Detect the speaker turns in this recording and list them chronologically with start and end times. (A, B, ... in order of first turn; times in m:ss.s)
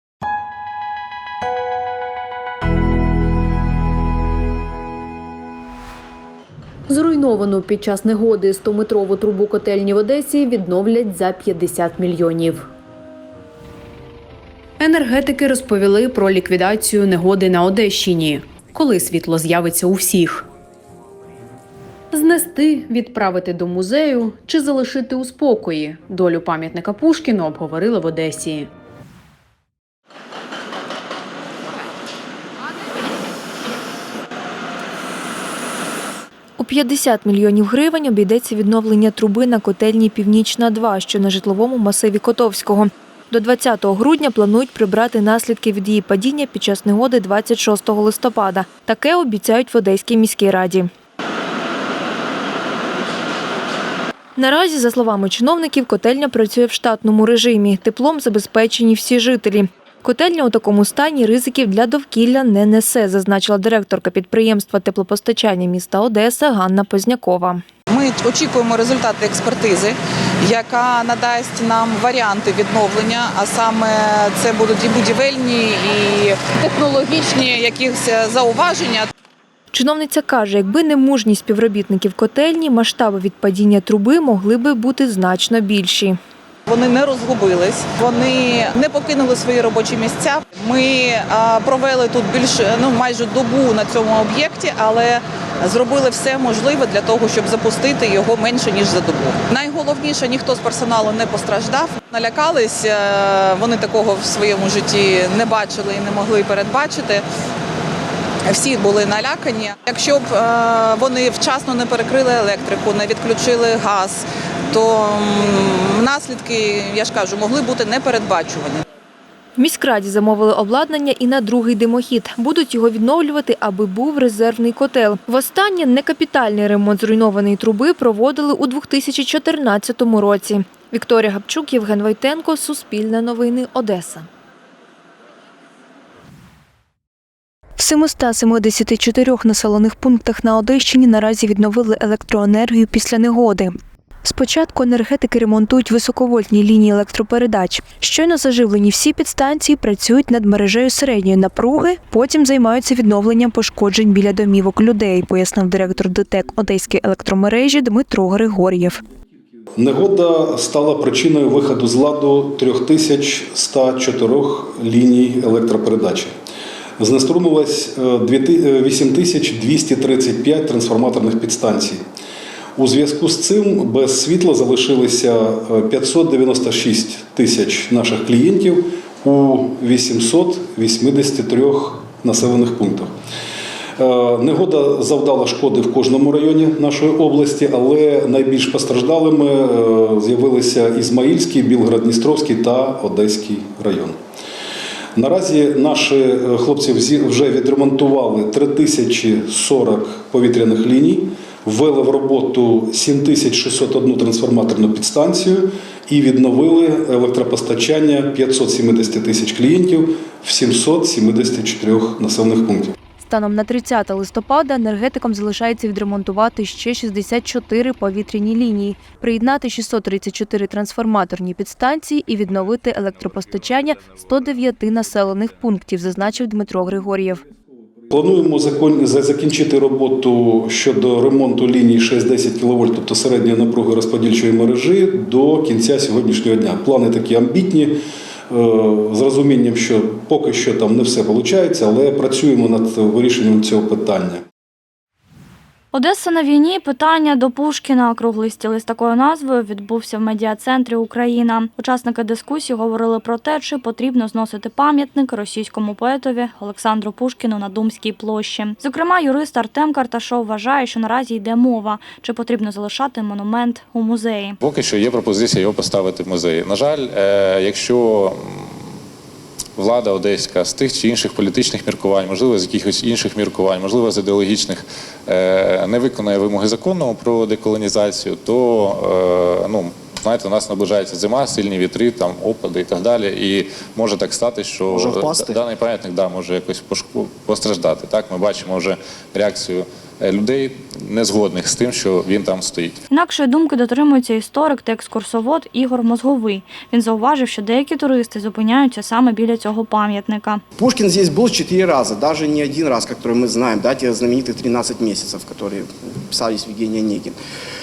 0:06.9-0:12.6 A
0:14.8-0:20.4 A
0:22.1-0:28.7 A
0:36.6-0:50.9 B
0:54.4-1:07.6 B
1:07.9-1:09.9 C
1:10.4-1:19.1 C
1:19.7-1:26.2 B
1:26.7-1:47.2 C
1:48.5-1:54.2 C
1:54.7-1:58.8 C
1:59.6-2:14.3 B
2:17.8-2:23.7 B
2:24.2-2:39.0 B
2:39.8-2:46.4 D
2:47.0-2:52.1 D
2:52.8-3:03.1 D
3:04.0-3:14.2 D
3:15.1-3:32.9 D
3:33.2-3:47.4 B
3:48.1-4:04.4 D
4:05.9-4:24.6 E
4:24.6-4:28.9 F
4:29.8-4:53.0 F
4:44.9-4:45.6 G
4:53.1-5:00.6 E
5:00.8-5:07.4 G